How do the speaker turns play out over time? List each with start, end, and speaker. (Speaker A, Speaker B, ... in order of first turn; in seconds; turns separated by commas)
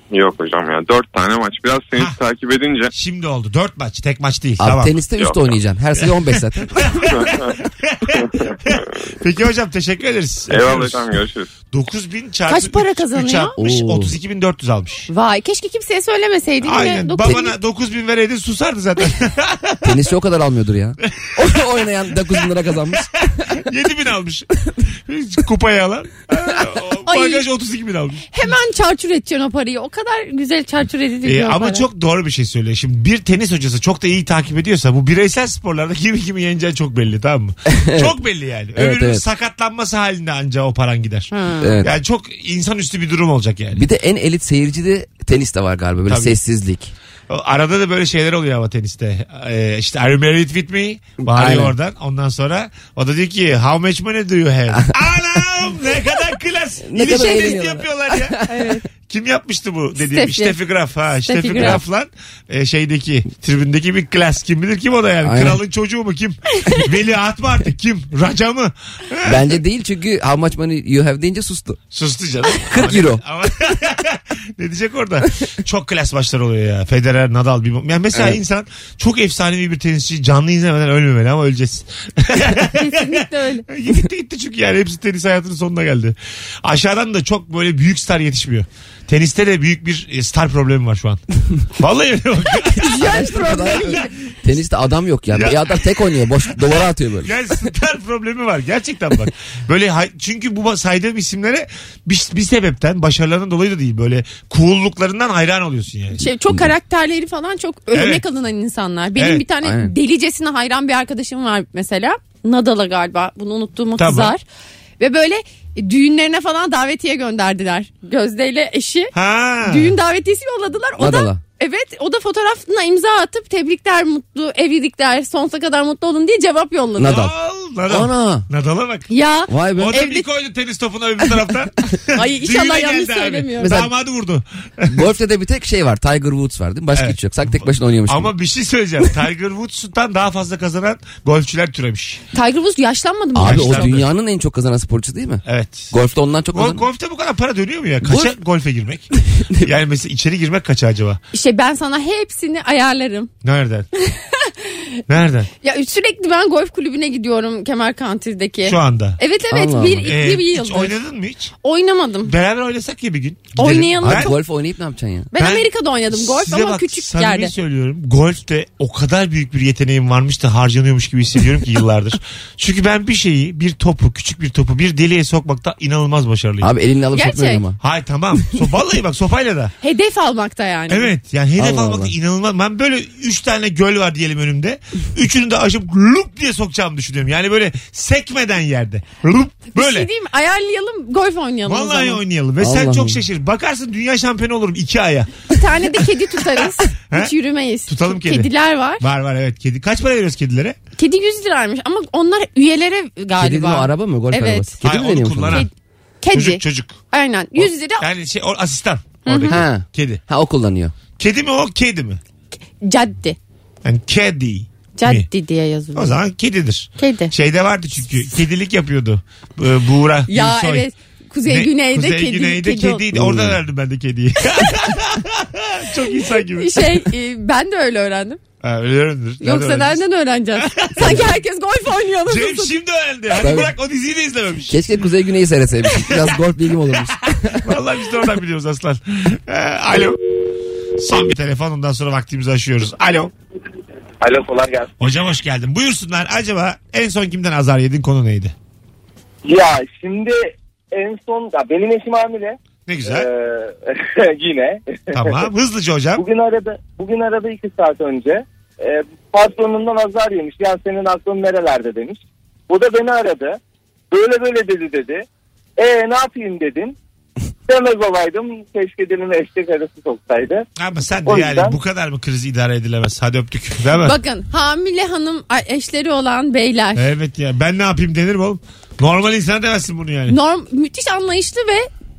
Speaker A: 0.1-2.9, Speaker B: 2.9-5.0, Speaker C: 4.6-7.2, Speaker A: 5.2-5.4, Speaker B: 6.8-11.0, Speaker A: 7.1-7.5, Speaker A: 8.2-8.9, Speaker A: 10.5-11.5, Speaker B: 11.7-15.1, Speaker D: 12.5-13.5, Speaker C: 13.6-14.2, Speaker D: 15.1-17.5, Speaker B: 16.6-19.9, Speaker C: 17.2-17.5, Speaker C: 19.8-23.6, Speaker B: 23.0-28.4, Speaker D: 27.1-27.4, Speaker D: 28.3-31.8, Speaker B: 31.2-43.8, Speaker C: 37.7-38.1, Speaker C: 38.8-39.2, Speaker D: 41.3-41.8, Speaker C: 41.6-41.9, Speaker C: 43.7-46.9, Speaker B: 46.1-46.4, Speaker B: 47.3-58.4, Speaker C: 51.2-51.7, Speaker C: 54.7-55.4, Speaker C: 56.8-58.8, Speaker D: 57.2-57.6, Speaker D: 58.5-58.8, Speaker B: 59.0-69.5, Speaker D: 60.0-60.5, Speaker D: 61.2-61.8, Speaker C: 65.2-65.6, Speaker C: 69.2-71.8, Speaker B: 71.9-93.9, Speaker C: 72.6-73.2, Speaker C: 78.1-78.4, Speaker D: 82.8-83.6, Speaker D: 92.8-94.1, Speaker C: 92.8-97.7, Speaker B: 95.3-106.2, Speaker D: 106.2-114.4, Speaker B: 107.9-108.2, Speaker B: 109.2-109.4, Speaker C: 109.6-109.9, Speaker B: 114.0-114.3, Speaker D: 115.0-119.1, Speaker B: 119.1-120.0, Speaker D: 119.6-127.3, Speaker C: 121.0-121.4, Speaker C: 127.0-127.3, Speaker B: 127.1-129.1, Speaker C: 127.9-128.4, Speaker D: 129.1-130.2, Speaker C: 129.5-130.0, Speaker B: 129.8-135.0, Speaker D: 132.1-133.8, Speaker C: 133.6-133.9, Speaker C: 134.9-138.3, Speaker B: 136.9-142.2, Speaker D: 142.3-143.9, Speaker C: 143.3-146.8, Speaker B: 143.4-144.1, Speaker B: 145.4-145.9, Speaker B: 146.5-151.2, Speaker C: 148.0-148.3, Speaker C: 149.2-149.6, Speaker D: 151.3-153.3, Speaker B: 153.4-153.9, Speaker D: 154.0-155.0, Speaker B: 155.1-155.5, Speaker D: 155.6-160.9, Speaker B: 158.7-159.2, Speaker C: 159.5-160.1, Speaker B: 160.0-161.5, Speaker D: 161.6-162.3, Speaker B: 162.2-164.3, Speaker D: 163.6-164.3, Speaker C: 164.0-165.3, Speaker D: 165.3-167.5, Speaker B: 165.4-176.7, Speaker C: 176.6-177.8, Speaker D: 177.1-177.6, Speaker B: 177.8-179.7, Speaker D: 179.8-181.1, Speaker B: 180.9-190.1, Speaker C: 181.6-182.1, Speaker D: 189.7-192.2, Speaker B: 191.7-195.5, Speaker C: 192.6-193.2, Speaker D: 195.5-199.0, Speaker B: 197.9-198.5, Speaker B: 199.0-200.8, Speaker D: 201.0-204.8, Speaker C: 203.4-205.7, Speaker B: 204.8-205.7, Speaker D: 206.2-208.0, Speaker B: 206.3-207.0, Speaker B: 207.6-210.2, Speaker D: 209.2-209.6, Speaker C: 209.5-210.9, Speaker B: 211.2-212.2, Speaker D: 212.8-213.4, Speaker B: 213.8-215.3, Speaker D: 215.0-216.1, Speaker B: 215.9-220.9, Speaker D: 217.0-217.3, Speaker D: 220.3-223.1, Speaker B: 221.5-227.1, Speaker C: 223.1-223.6, Speaker D: 226.4-228.4, Speaker B: 228.6-230.0, Speaker D: 229.4-232.7, Speaker B: 230.6-231.3, Speaker B: 232.3-234.8, Speaker C: 233.3-233.7, Speaker C: 234.7-237.8, Speaker B: 236.1-236.3, Speaker B: 237.5-240.2, Speaker B: 241.0-243.3, Speaker E: 244.2-244.9, Speaker B: 245.0-248.5, Speaker E: 249.4-255.4, Speaker B: 252.9-253.3, Speaker B: 255.1-256.2, Speaker E: 256.2-263.6, Speaker E: 264.1-265.2, Speaker E: 265.8-266.9, Speaker E: 267.7-270.6, Speaker B: 270.8-274.2, Speaker E: 271.2-271.7, Speaker D: 274.0-277.0, Speaker B: 276.9-280.4, Speaker D: 280.3-281.9